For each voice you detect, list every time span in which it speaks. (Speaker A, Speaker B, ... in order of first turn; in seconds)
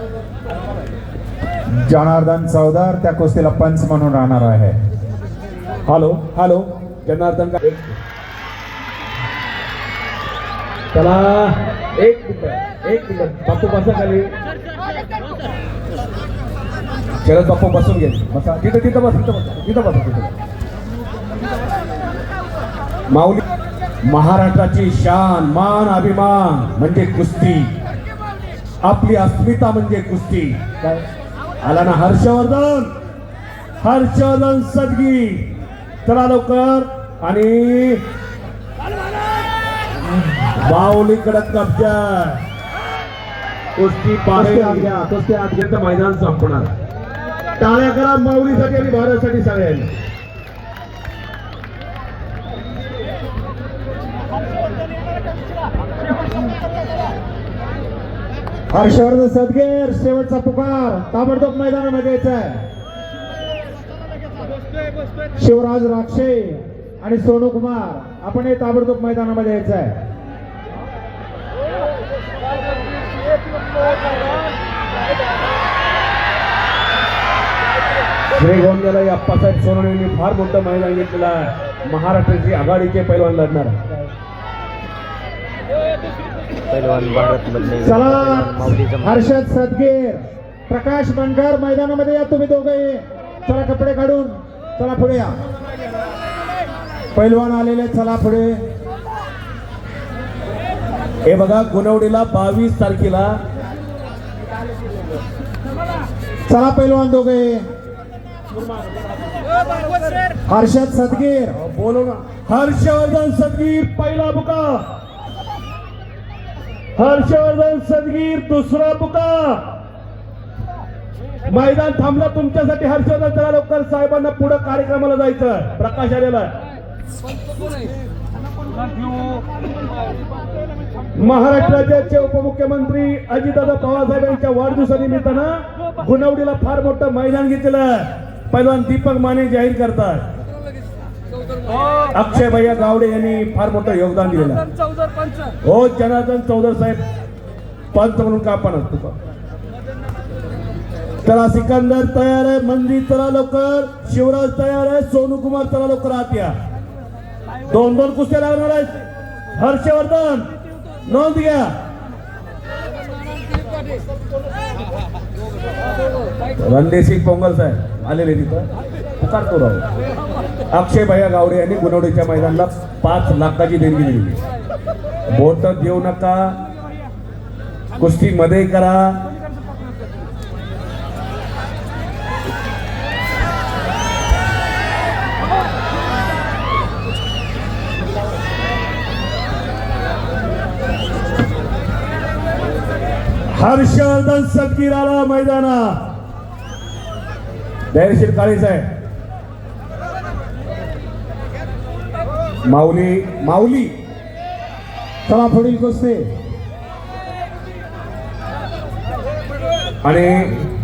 Speaker A: 1.8-4.7, 44.3-45.7, 58.7-62.6, 65.4-69.9, 87.8-95.3, 97.1-98.6, 106.5-107.6, 110.5-111.5, 205.3-206.2
Speaker B: 5.8-8.0, 10.9-14.3, 17.2-20.3, 23.1-23.4, 24.0-27.7, 28.8-30.6, 31.6-32.9, 33.8-35.5, 36.0-38.0, 40.1-42.4, 43.8-45.0, 45.6-46.7, 47.6-49.9, 78.3-83.8, 101.2-103.4, 108.5-109.0, 111.5-114.8, 117.0-119.6, 121.5-126.5, 131.2-140.2, 142.1-144.7, 145.6-147.0, 147.9-149.1, 151.2-156.5, 157.7-159.0, 159.5-160.5, 161.1-161.7, 166.6-168.7, 169.2-169.9, 170.7-174.4, 175.3-176.6, 178.0-179.2, 193.5-195.9, 197.9-198.8, 202.7-203.9, 210.0-210.5
Speaker C: 86.7-89.2